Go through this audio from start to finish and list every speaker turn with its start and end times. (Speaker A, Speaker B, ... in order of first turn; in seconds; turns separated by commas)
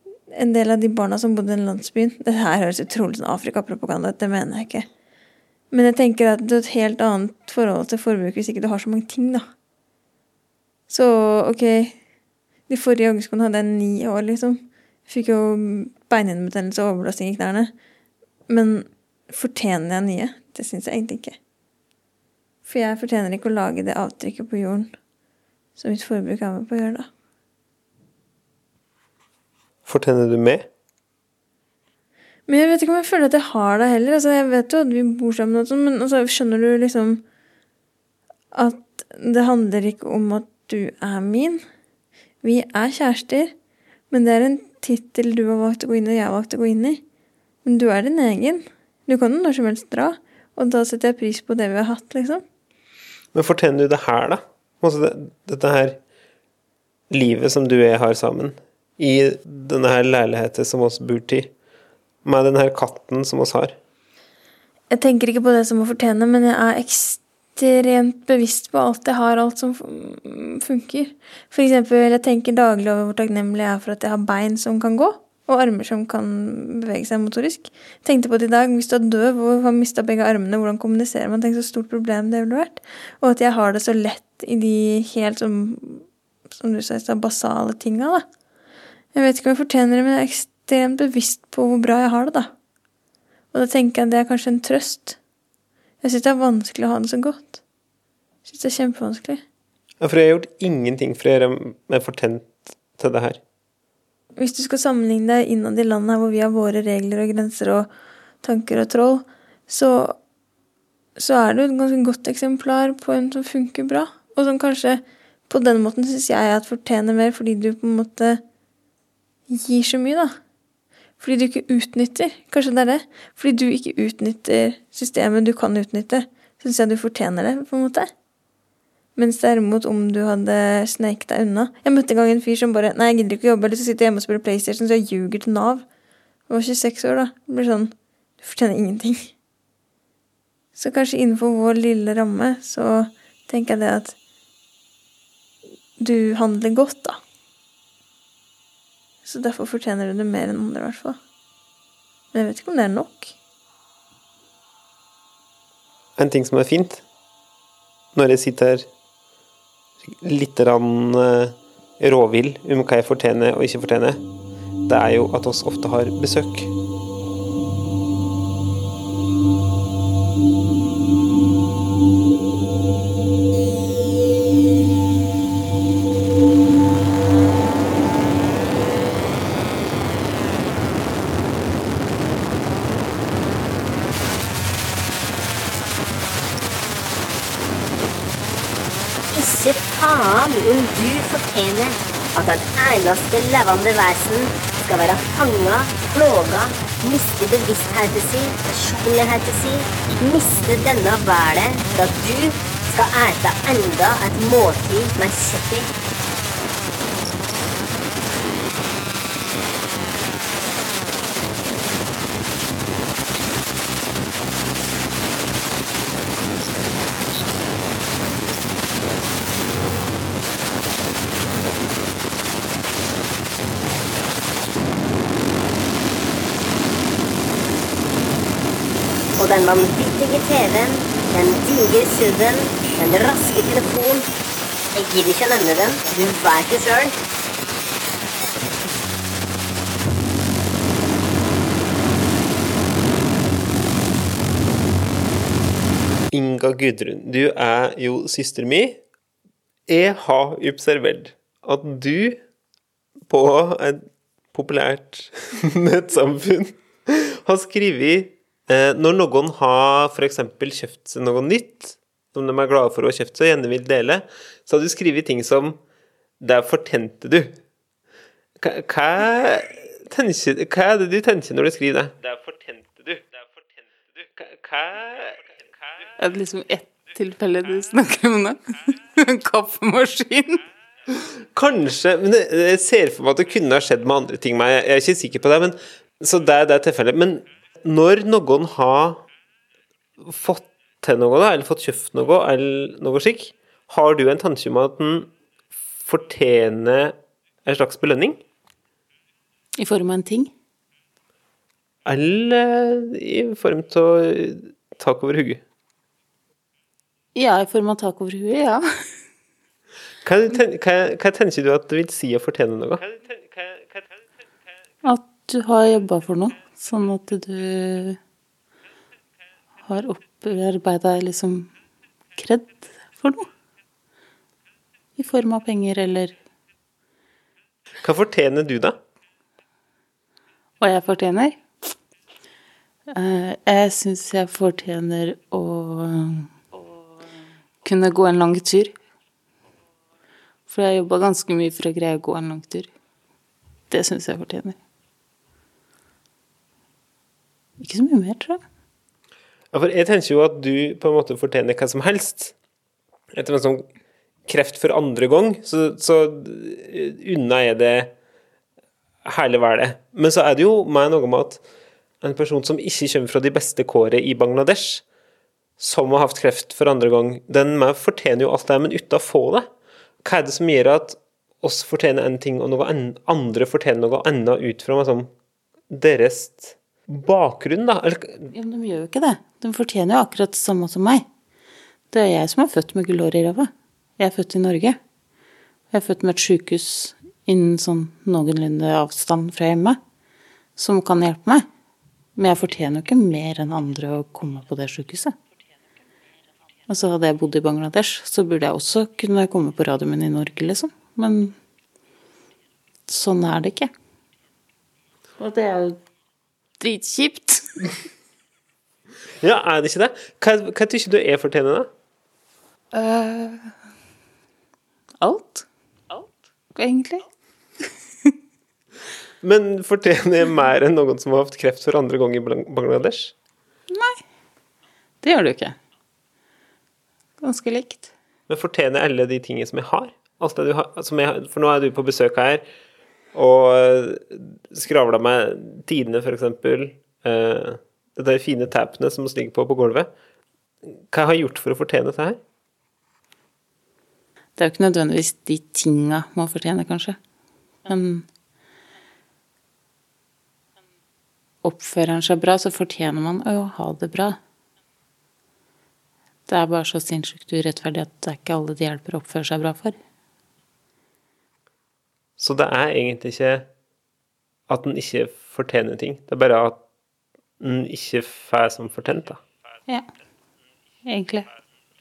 Speaker A: 0.3-4.9, Speaker A: 5.7-9.4, Speaker A: 10.9-12.0, Speaker A: 12.7-17.7, Speaker A: 18.5-21.4, Speaker A: 22.7-24.9, Speaker A: 25.8-27.1, Speaker B: 29.9-30.7, Speaker A: 32.5-37.2, Speaker A: 38.5-41.6, Speaker A: 42.4-43.5, Speaker A: 44.1-47.0, Speaker A: 47.6-52.4, Speaker B: 53.3-56.0, Speaker B: 57.1-61.5, Speaker B: 62.2-63.8, Speaker A: 64.9-88.2, Speaker A: 89.1-92.5, Speaker A: 93.5-95.2, Speaker A: 96.0-97.6, Speaker A: 98.5-99.4, Speaker B: 100.0-103.4, Speaker A: 104.4-107.9, Speaker A: 108.4-110.2, Speaker A: 111.2-118.4, Speaker A: 119.5-120.4, Speaker A: 121.2-128.1, Speaker A: 129.2-135.8, Speaker A: 136.5-139.3, Speaker A: 140.8-144.2, Speaker A: 146.0-147.2, Speaker A: 149.2-151.2, Speaker A: 152.3-153.3, Speaker B: 156.2-157.0, Speaker B: 158.1-158.9, Speaker B: 160.1-164.2, Speaker B: 164.9-166.7, Speaker C: 189.3-205.9, Speaker C: 229.4-234.3, Speaker C: 234.9-237.2, Speaker B: 246.3-249.0, Speaker B: 249.9-252.4, Speaker B: 253.3-265.8, Speaker B: 266.4-267.6, Speaker B: 268.6-273.4, Speaker B: 274.2-275.5, Speaker D: 276.2-280.6, Speaker B: 281.1-289.2, Speaker B: 290.2-295.3, Speaker B: 296.0-298.4, Speaker D: 299.8-300.5, Speaker B: 302.1-305.6, Speaker D: 307.4-308.8, Speaker B: 310.2-313.1, Speaker D: 315.0-318.2, Speaker D: 319.8-321.7, Speaker D: 322.4-323.5, Speaker D: 325.2-326.4, Speaker B: 328.0-329.0, Speaker D: 330.8-331.6, Speaker D: 333.1-336.6, Speaker D: 337.8-338.9, Speaker D: 340.7-342.9, Speaker D: 343.9-344.8, Speaker D: 347.8-348.6, Speaker B: 349.7-352.5, Speaker B: 353.3-353.9, Speaker B: 354.5-358.1, Speaker B: 359.2-361.6, Speaker B: 362.2-365.0, Speaker B: 365.8-369.7, Speaker B: 370.2-375.3, Speaker B: 375.9-378.5, Speaker D: 378.5-381.3, Speaker D: 382.1-385.0, Speaker D: 385.9-390.0, Speaker D: 390.8-391.7, Speaker D: 392.4-395.4, Speaker D: 396.9-401.6, Speaker D: 403.1-403.9, Speaker D: 405.4-406.0, Speaker D: 406.8-407.9, Speaker B: 409.4-411.9, Speaker D: 412.9-413.7, Speaker D: 415.2-417.2, Speaker B: 419.4-423.3, Speaker D: 423.9-424.2, Speaker D: 425.2-425.8, Speaker D: 427.4-428.1, Speaker B: 428.5-432.6, Speaker B: 433.3-440.1, Speaker B: 441.1-442.4, Speaker D: 444.6-447.2, Speaker D: 447.8-448.2, Speaker D: 451.6-454.4, Speaker D: 456.5-460.0, Speaker B: 462.4-463.7, Speaker B: 464.7-466.8, Speaker B: 467.6-469.4, Speaker D: 471.1-471.5